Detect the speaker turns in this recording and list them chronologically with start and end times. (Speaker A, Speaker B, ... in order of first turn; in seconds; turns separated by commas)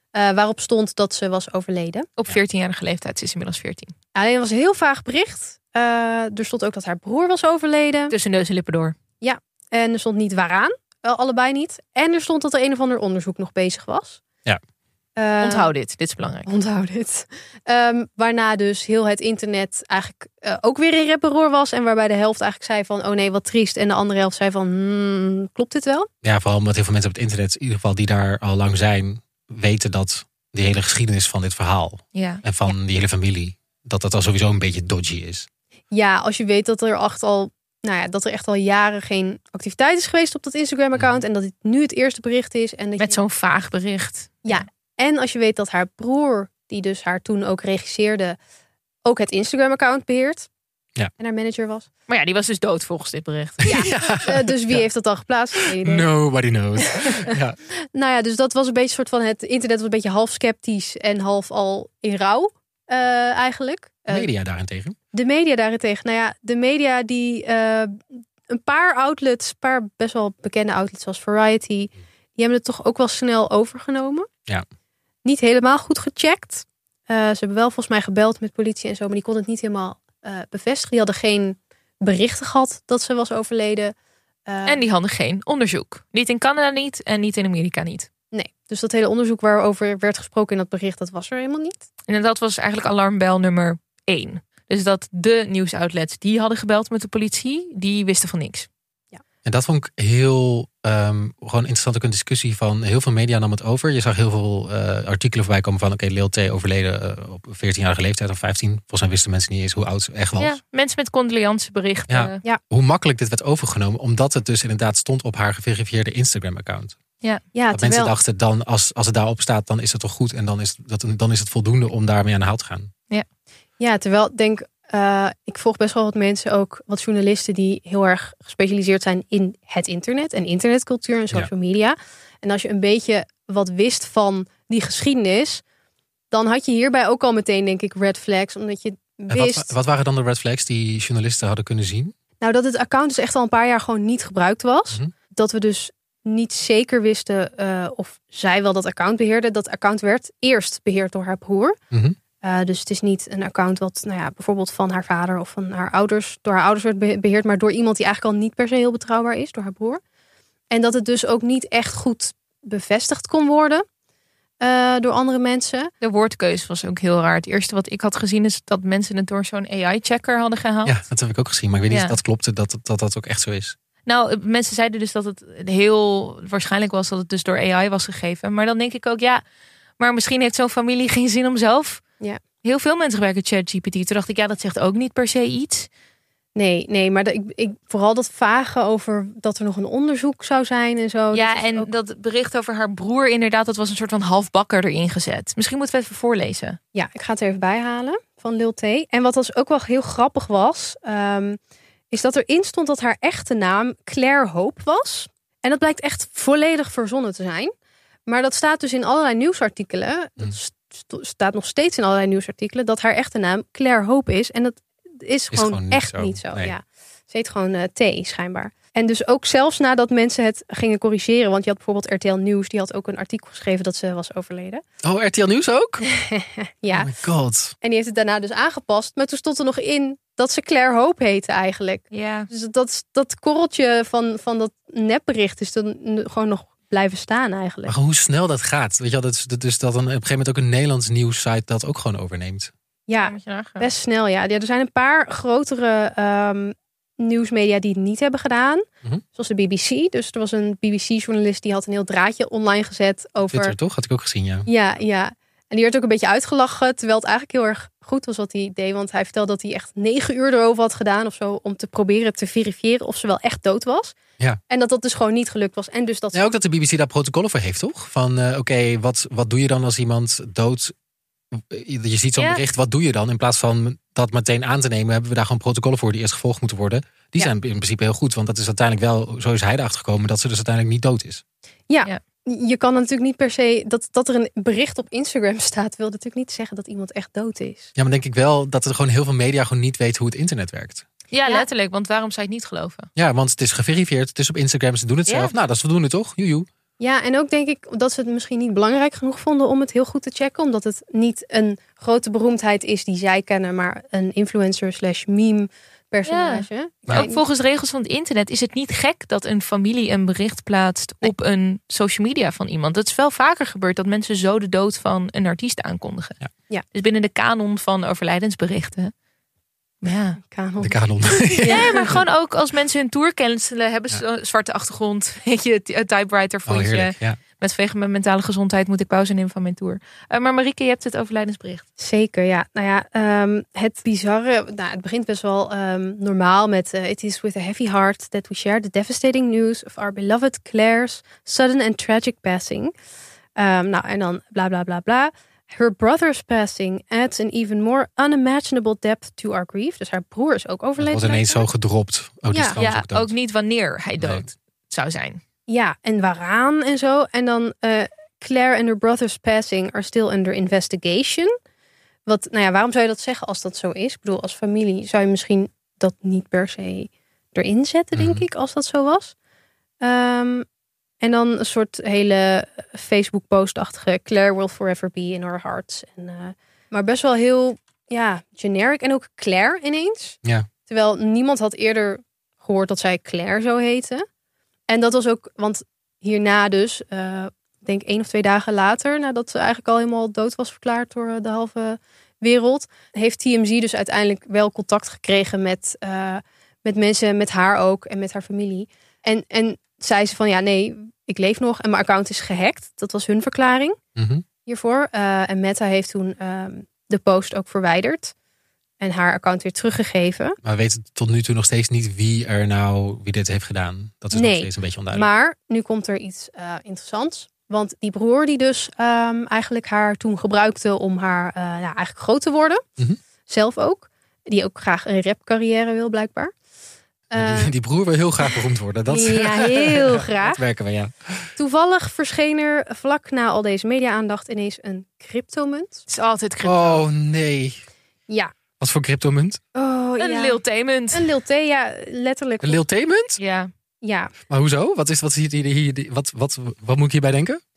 Speaker A: 0.1-2.1, Speaker B: 2.2-3.9, Speaker A: 4.1-8.1, Speaker B: 8.1-8.9, Speaker A: 9.2-14.2, Speaker A: 15.2-15.7, Speaker B: 15.4-16.5, Speaker A: 16.4-26.1, Speaker C: 26.2-35.5, Speaker B: 32.1-32.4, Speaker A: 35.9-43.2, Speaker C: 41.0-41.2, Speaker B: 43.0-44.6, Speaker A: 44.4-48.4, Speaker A: 49.0-50.5, Speaker A: 51.2-51.9, Speaker B: 52.1-53.9, Speaker C: 53.7-54.8, Speaker A: 53.7-56.1, Speaker C: 55.8-57.6, Speaker A: 56.8-57.3, Speaker A: 57.9-64.3, Speaker C: 64.1-65.0, Speaker A: 65.1-74.3, Speaker A: 75.2-83.9, Speaker A: 84.5-84.8, Speaker B: 84.7-88.1, Speaker A: 88.3-91.8, Speaker B: 92.1-98.7, Speaker C: 99.4-110.6, Speaker B: 110.4-112.4, Speaker C: 112.1-117.0, Speaker A: 117.5-118.1, Speaker C: 117.7-122.9, Speaker A: 123.8-135.6, Speaker A: 136.3-139.7, Speaker C: 139.3-142.1, Speaker A: 142.4-151.8, Speaker C: 151.9-152.2, Speaker A: 152.4-160.0, Speaker A: 160.7-163.8, Speaker A: 164.6-165.9, Speaker B: 166.0-170.9, Speaker C: 170.8-173.8, Speaker B: 171.9-172.2, Speaker B: 174.1-179.4, Speaker B: 180.0-182.0, Speaker B: 182.6-185.9, Speaker A: 186.6-191.9, Speaker B: 191.3-196.8, Speaker A: 196.9-201.6, Speaker A: 202.1-207.7, Speaker A: 208.3-224.8, Speaker C: 215.5-216.7, Speaker C: 225.0-226.0, Speaker A: 226.1-227.1, Speaker C: 226.9-227.7, Speaker A: 227.8-237.9, Speaker B: 232.1-232.5, Speaker C: 237.9-242.7, Speaker A: 243.1-248.8, Speaker B: 243.2-243.9, Speaker A: 249.3-253.7, Speaker C: 253.5-254.7, Speaker A: 254.7-264.1, Speaker A: 264.7-266.4, Speaker C: 266.3-270.9, Speaker C: 271.5-281.4, Speaker A: 281.9-287.9, Speaker C: 287.9-291.0, Speaker B: 291.3-293.1, Speaker C: 293.1-296.7, Speaker B: 295.3-295.5, Speaker A: 297.0-307.4, Speaker B: 306.2-316.4, Speaker B: 316.9-319.1, Speaker B: 320.0-320.4, Speaker A: 320.4-322.0, Speaker C: 320.8-322.1, Speaker B: 321.6-331.8, Speaker C: 326.6-327.4, Speaker A: 332.0-342.9, Speaker A: 343.6-351.7, Speaker C: 351.0-353.3, Speaker A: 352.5-352.8, Speaker B: 352.8-355.4, Speaker C: 354.2-354.4, Speaker A: 355.7-361.5, Speaker A: 362.3-369.3, Speaker C: 368.1-368.4, Speaker A: 370.0-370.6, Speaker A: 371.2-384.2, Speaker A: 384.9-403.9, Speaker C: 404.1-404.4, Speaker A: 404.6-408.3, Speaker A: 409.0-410.6, Speaker C: 410.6-415.3, Speaker A: 414.3-422.8, Speaker A: 423.5-426.5, Speaker C: 427.3-431.5, Speaker A: 427.3-427.7, Speaker A: 429.1-430.6, Speaker A: 431.6-436.1, Speaker B: 436.1-437.1, Speaker C: 436.6-437.8, Speaker C: 438.8-439.6, Speaker A: 439.7-440.6, Speaker B: 440.2-441.2, Speaker A: 441.1-442.8, Speaker C: 442.6-443.4, Speaker B: 443.4-443.7, Speaker A: 444.0-444.3, Speaker C: 444.5-447.6